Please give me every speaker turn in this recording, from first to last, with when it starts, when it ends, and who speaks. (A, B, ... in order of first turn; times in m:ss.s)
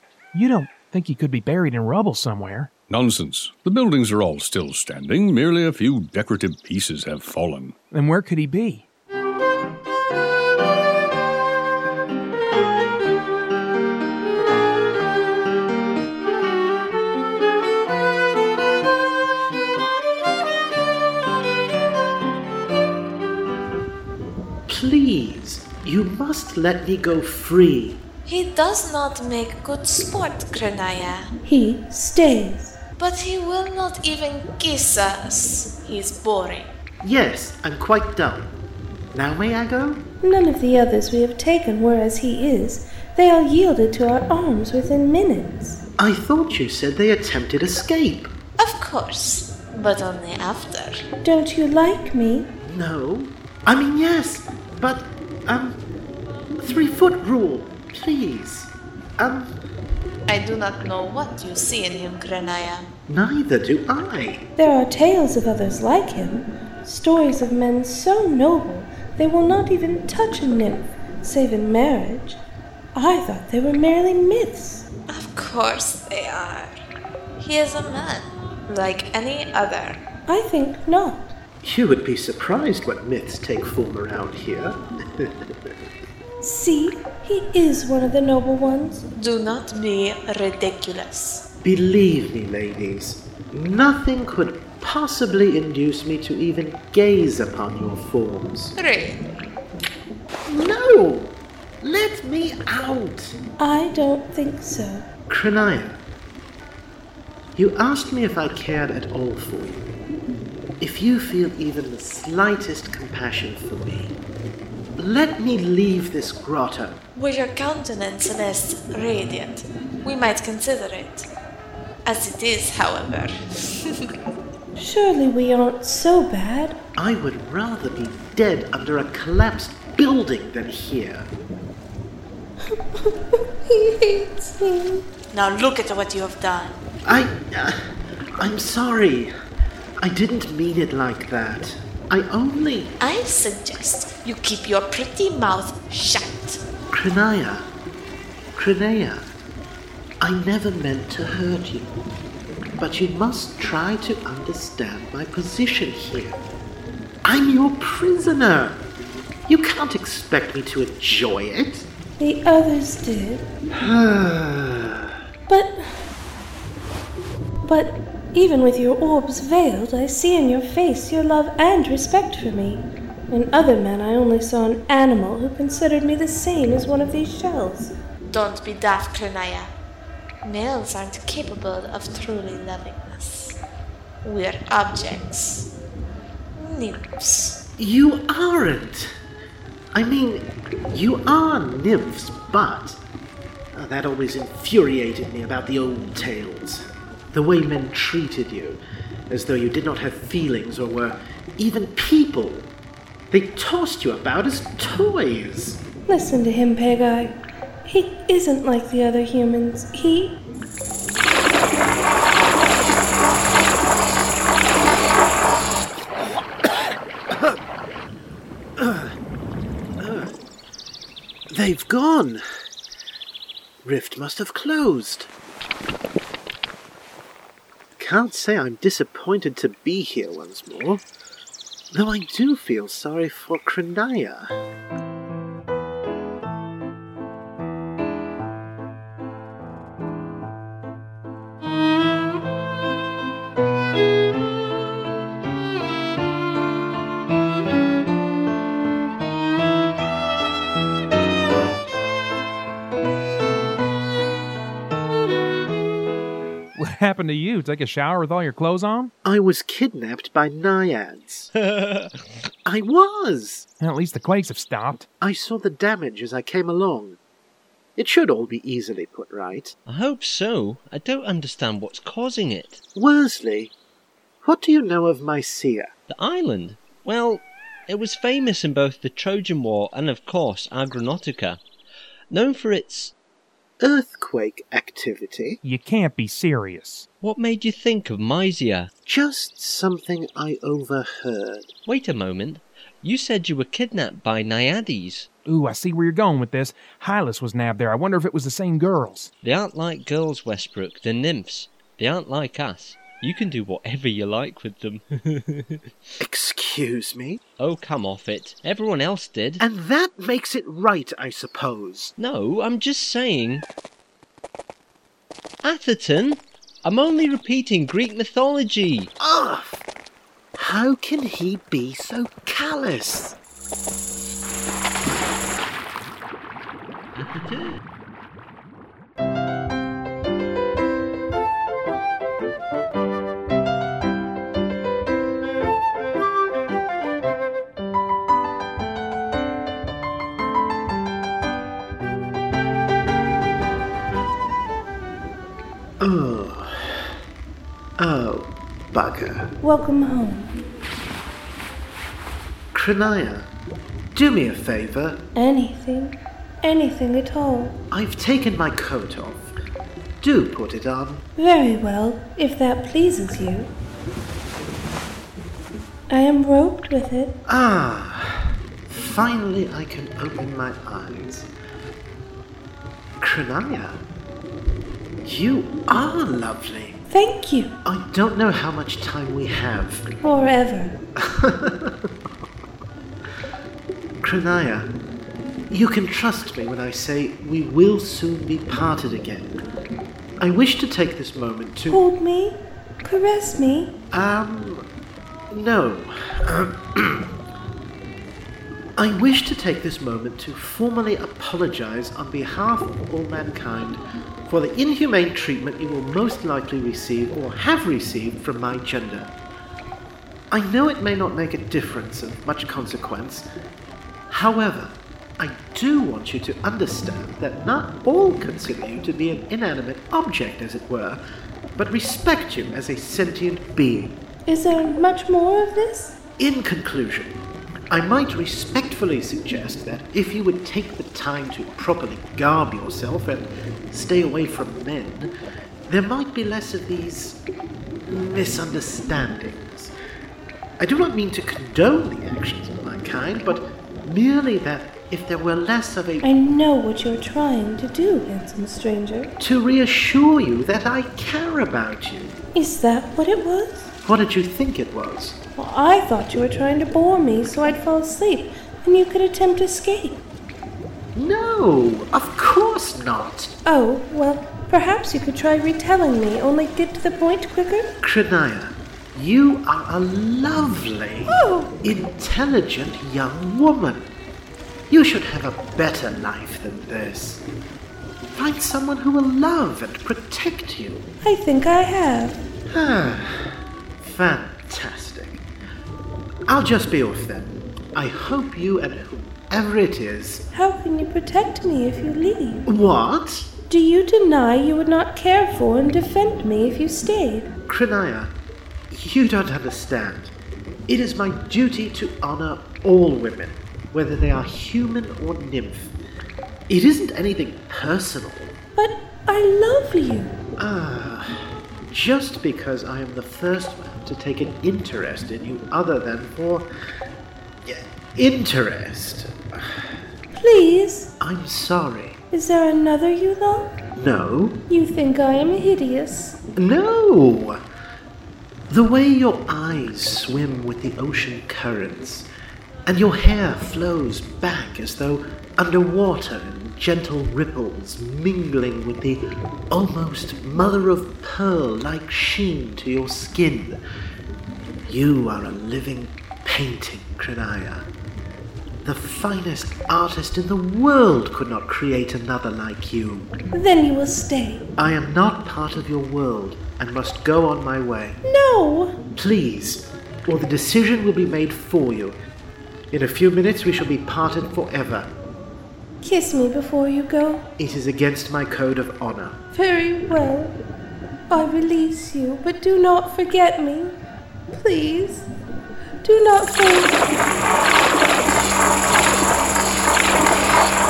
0:00.3-0:02.7 A
0:02.9-0:07.8 B
0:07.9-0:08.8 A
0:24.7-0:28.0 C
0:28.2-0:31.3 D
0:31.4-0:32.8 E
0:33.0-0:36.7 D
0:37.0-0:38.5 C
0:39.1-0:40.0 C
0:40.2-0:45.8 E
0:46.0-0:48.3 C
0:48.6-0:51.0 D
0:51.2-0:52.5 E
0:52.7-0:55.8 C
0:56.6-0:59.5 C
1:00.3-1:02.9 D
1:03.1-1:04.4 C
1:04.6-1:12.4 E
1:12.9-1:14.9 E
1:15.1-1:16.8 D
1:17.4-1:20.0 D
1:20.3-1:21.4 E
1:21.6-1:25.7 C
1:26.4-1:29.0 E
1:29.2-1:31.4 D
1:31.6-1:38.8 C
1:38.8-1:39.4 D
1:40.5-1:43.4 C
1:43.6-1:45.1 E
1:45.3-1:46.0 C
1:47.6-1:49.9 C
1:50.8-1:54.2 C
1:55.0-1:57.0 C
1:57.2-2:01.3 D
2:02.1-2:04.1 D
2:04.8-2:06.8 E
2:07.0-2:11.3 C
2:12.7-2:15.0 E
2:15.3-2:16.8 D
2:17.1-2:17.8 C
2:18.4-2:19.3 C
2:20.0-2:22.9 C
2:23.0-2:26.6 D
2:26.9-2:27.7 C
2:28.6-2:29.3 C
2:30.2-2:31.9 C
2:32.8-2:36.4 C
2:37.2-2:38.8 C
2:39.5-2:41.9 C
2:42.2-2:43.5 E
2:43.8-2:45.1 C
2:45.5-2:46.1 E
2:47.6-2:57.9 E
2:58.3-2:59.7 D
3:00.4-3:03.6 D
3:04.2-3:05.7 D
3:06.6-3:07.6 D
3:07.8-3:09.1 C
3:09.9-3:13.0 C
3:13.8-3:22.7 C
3:23.3-3:25.8 C
3:26.1-3:30.4 E
3:36.6-3:37.6 C
3:38.8-3:39.1 C
3:40.0-3:40.3 C
3:41.5-3:42.4 C
3:43.8-3:45.3 C
3:48.0-3:51.0 C
3:51.9-3:54.5 C
4:16.8-4:19.1 A
4:19.2-4:21.5 C
4:21.6-4:22.1 F
4:22.7-4:23.7 C
4:23.8-4:25.0 A
4:25.2-4:27.2 C
4:28.0-4:29.7 C
4:29.9-4:32.8 F
4:33.0-4:33.7 C
4:34.4-4:35.9 C
4:36.1-4:41.6 F
4:42.3-4:43.1 F
4:43.8-4:45.6 C
4:45.6-4:47.1 A
4:47.2-4:48.9 F
4:49.1-4:51.7 C
4:51.9-4:55.3 F
4:55.5-4:59.3 A
4:59.4-5:05.8 F
5:06.2-5:07.4 C
5:07.6-5:09.6 F
5:09.6-5:12.1 C
5:12.2-5:13.6 F
5:15.6-5:19.1 F
5:19.2-5:19.8 C
5:20.6-5:23.4 C
5:27.2-5:27.8 F
5:46.0-5:47.1 C
5:48.0-5:49.5 C
5:49.6-5:50.5 E
5:52.7-5:53.5 C
5:54.1-5:55.2 C
5:55.4-5:57.8 E
5:57.9-5:59.5 C
6:00.2-6:01.2 C
6:01.4-6:03.7 E
6:06.1-6:07.4 E
6:07.5-6:11.5 C
6:13.2-6:14.0 C
6:15.2-6:17.0 C
6:17.1-6:17.8 E
6:17.8-6:20.1 C
6:20.2-6:21.0 E
6:21.2-6:22.1 C
6:24.2-6:24.9 C
6:25.7-6:29.6 C
6:30.4-6:32.0 C
6:31.9-6:33.9 E
6:34.1-6:34.8 C
6:35.5-6:37.3 C
6:39.0-6:49.3 C
6:50.5-6:53.5 C
6:54.3-7:01.2 C
7:01.8-7:04.2 C
7:04.5-7:06.2 E
7:06.4-7:07.4 C
7:07.9-7:15.3 C
7:15.9-7:17.4 C
7:18.1-7:19.9 C
7:20.8-7:26.3 C
7:26.2-7:29.3 E
7:29.4-7:32.4 C
7:32.6-7:33.9 E
7:34.0-7:35.4 C
7:35.6-7:40.2 E
7:41.2-7:43.5 C
7:43.6-7:47.9 E
7:48.0-7:54.1 C
7:51.3-7:51.7 E
7:54.9-7:57.4 C
7:58.4-8:01.1 C
8:01.2-8:02.4 E
8:02.7-8:05.4 C
8:06.5-8:10.4 C
8:10.5-8:12.7 E
8:12.7-8:13.5 C
8:13.7-8:17.5 E
8:17.7-8:18.3 C
8:18.9-8:20.3 C
8:20.9-8:25.9 C
8:26.7-8:28.5 C
8:28.8-8:30.4 E
8:30.6-8:36.7 C
8:37.6-8:39.7 C
8:40.4-8:41.1 E
8:41.2-8:42.2 C
8:42.3-8:43.8 E
8:44.0-8:44.6 C
8:44.7-8:46.4 E
8:46.6-8:47.6 C
8:48.7-8:52.3 C
8:52.9-9:03.8 C
9:04.9-9:07.9 C
9:08.8-9:13.3 C
9:13.5-9:14.7 E
9:14.8-9:18.2 C
9:18.2-9:19.0 E
9:19.2-9:22.2 C
9:22.9-9:25.1 C
9:26.0-9:27.5 E
9:27.6-9:29.4 C
9:29.5-9:30.6 E
9:31.3-9:34.0 E
9:34.5-9:35.3 E
9:36.0-9:37.0 E